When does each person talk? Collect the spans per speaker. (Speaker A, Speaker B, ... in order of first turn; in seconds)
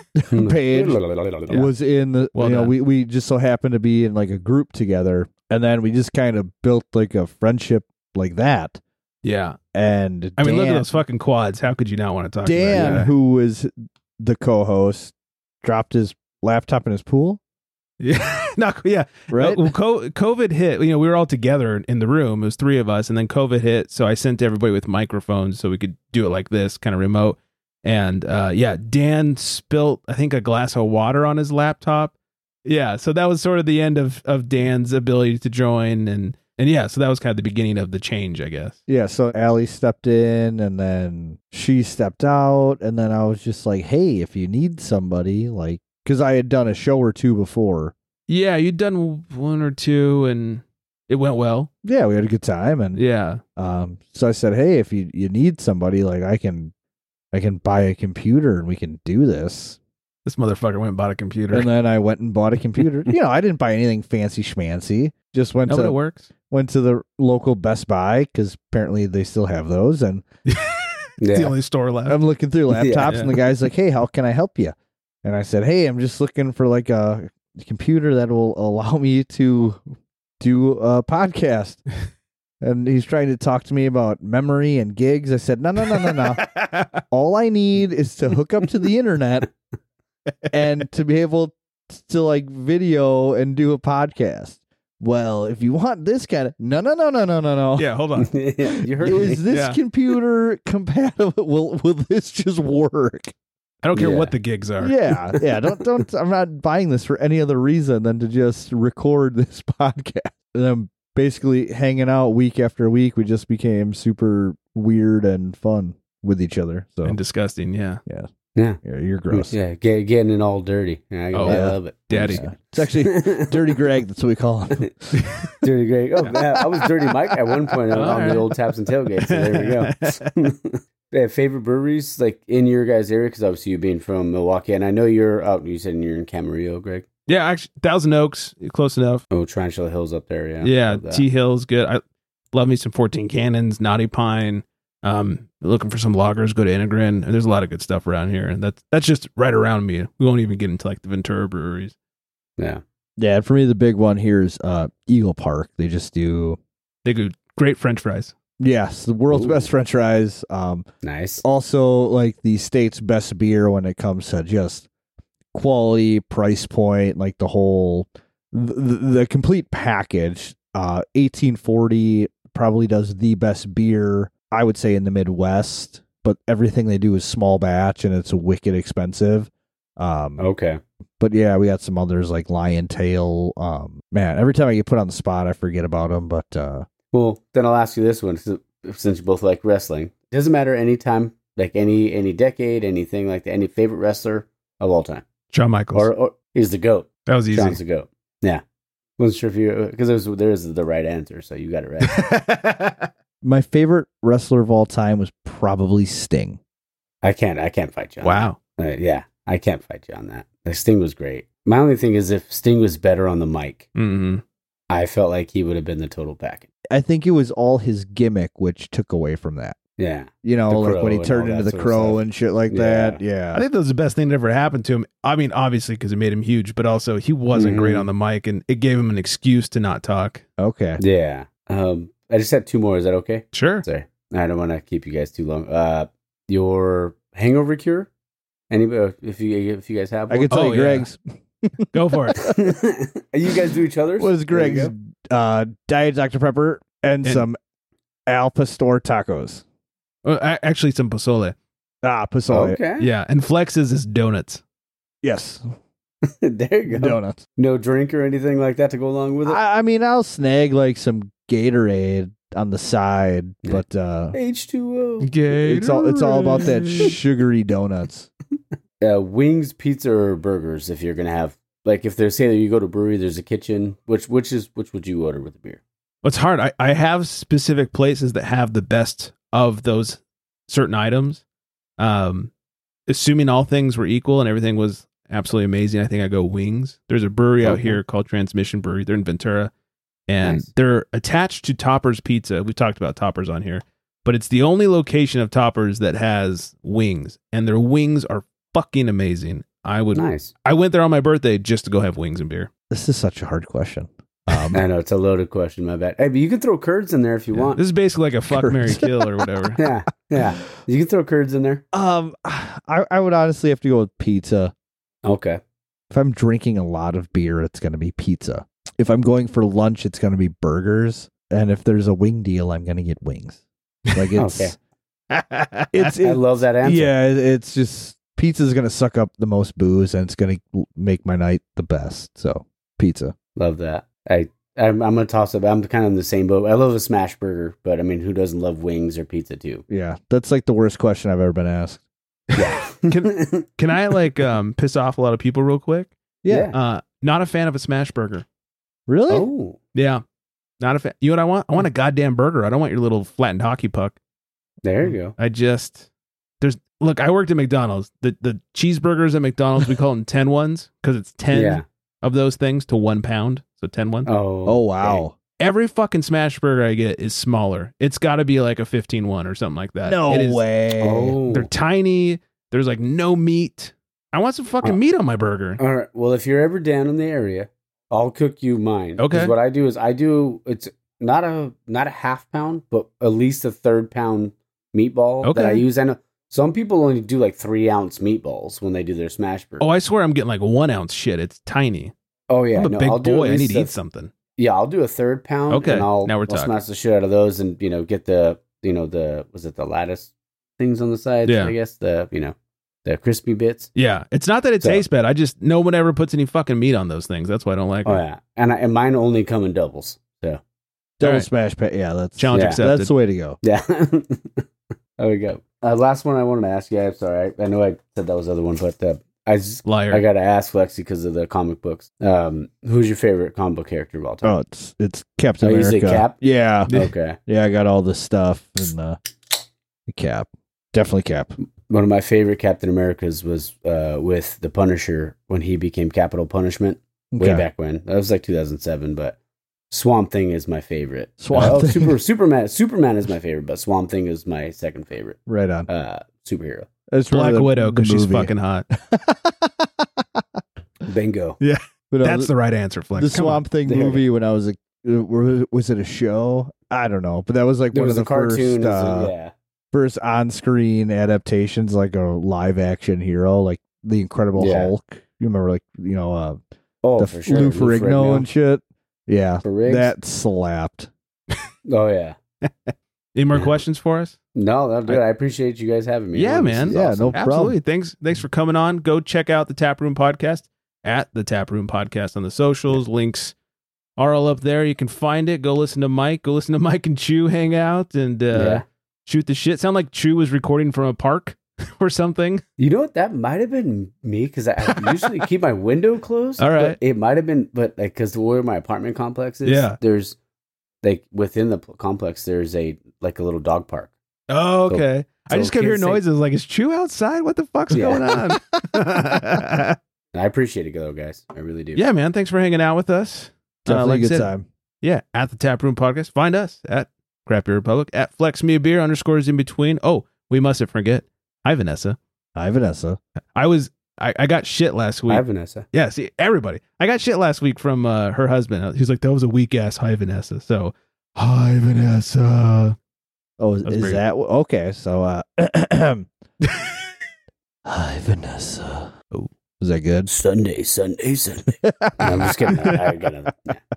Speaker A: 0.2-8.8, 9.7-10.9, 12.4-17.4, 19.3-19.6, 38.9-47.9, 51.8-53.0, 53.5-56.7, 57.3-59.8, 61.5-66.0, 66.5-70.2, 72.1-79.8, 80.4-81.8, 82.6-86.5, 87.1-89.5, 90.5-97.9, 99.0-103.3, 104.8-117.2, 118.8-119.5, 121.5-125.2, 153.2-156.6, 158.6-160.8, 161.4-164.9, 165.5-180.4, 181.2-186.8, 203.4-206.6, 216.9-219.8, 220.4-223.6, 230.6-231.0, 240.3-242.5, 244.2-247.6, 248.3-249.6, 252.0-252.8, 255.2-255.6, 256.9-257.4, 259.5-264.4, 265.5-268.3, 302.9-304.8, 308.5-309.4, 311.9-314.7, 316.1-323.6, 324.1-324.7, 325.9-333.3, 339.9-342.0, 346.4-346.7, 349.1-349.5, 364.6-365.3, 370.0-371.4, 411.2-413.6, 424.4-426.9, 427.5-429.2, 430.1-431.5, 437.3-437.6, 441.4-442.2, 445.5-445.9, 447.1-450.4, 452.1-452.5, 453.1-459.3, 459.9-466.6, 467.2-471.1, 476.9-477.8, 513.9-514.6, 522.5-523.2, 533.6-536.3, 537.9-539.1, 539.8-540.3, 541.8-542.3
Speaker B: 0.3-1.7, 12.7-13.0, 71.2-71.5, 72.7-73.2, 98.2-99.4, 103.9-104.3, 118.5-118.8, 119.3-122.4, 123.0-123.7, 125.6-137.1, 139.3-141.2, 159.3-159.7, 161.0-161.4, 180.4-180.8, 187.1-195.3, 195.9-198.6, 199.2-202.2, 207.2-213.9, 214.9-216.7, 220.0-223.2, 227.5-228.1, 231.0-238.1, 238.7-240.5, 242.5-244.9, 252.5-253.1, 256.2-259.6, 263.6-265.3, 269.0-275.8, 287.6-288.0, 300.1-300.5, 304.7-307.8, 309.8-311.8, 315.2-315.6, 324.4-324.7, 326.2-327.1, 333.6-339.8, 342.5-343.6, 346.5-346.8, 349.3-349.8, 354.8-355.3, 361.5-361.8, 364.2-365.2, 371.0-371.7, 375.8-389.9, 392.5-393.9, 394.6-403.9, 408.0-410.6, 412.5-412.8, 413.6-424.5, 425.6-427.4, 431.9-439.4, 439.9-446.9, 451.1-451.6, 453.9-454.2, 457.9-459.5, 464.5-464.9, 467.0-468.5, 469.6-470.1, 471.8-472.4, 473.5-473.8, 474.5-477.4, 488.5-488.8, 492.8-500.4, 501.0-504.1, 504.9-506.2, 507.9-508.2, 510.3-512.0, 525.3-525.9, 540.2-543.8
Speaker C: 2.3-2.7, 9.2-9.6, 10.4-13.1, 18.0-32.1, 32.6-38.8, 48.3-51.7, 52.9-53.4, 60.2-61.7, 65.7-66.3, 70.5-72.2, 73.1-73.3, 85.9-87.0, 97.8-98.4, 99.5-99.8, 103.8-105.0, 117.0-118.0, 121.3-122.4, 125.2-125.5, 127.9-128.5, 129.2-130.3, 137.3-139.2, 140.6-142.0, 142.5-151.9, 157.0-158.3, 195.5-196.1, 197.3-197.8, 202.0-203.1, 208.2-208.6, 213.9-214.4, 223.5-230.4, 233.5-233.8, 240.5-241.1, 241.9-242.5, 250.2-251.5, 253.0-254.6, 265.2-267.2, 276.2-281.4, 282.0-282.5, 283.1-289.7, 290.3-302.7, 307.6-309.8, 325.3-326.1, 342.5-346.1, 346.7-348.4, 349.9-350.2, 350.8-354.1, 355.3-356.1, 356.6-364.3, 365.6-370.6, 371.5-375.8, 379.2-379.5, 385.4-385.8, 389.8-392.1, 392.8-394.3, 395.7-396.7, 401.4-401.7, 403.9-408.2, 411.2-411.5, 412.4-413.1, 419.9-420.2, 447.3-448.9, 451.6-453.6, 472.6-474.4, 476.3-483.5, 484.2-492.6, 494.9-495.2, 496.6-497.0, 499.6-500.0, 504.5-510.0, 511.9-514.5, 515.0-522.2, 523.5-533.0, 533.8-534.2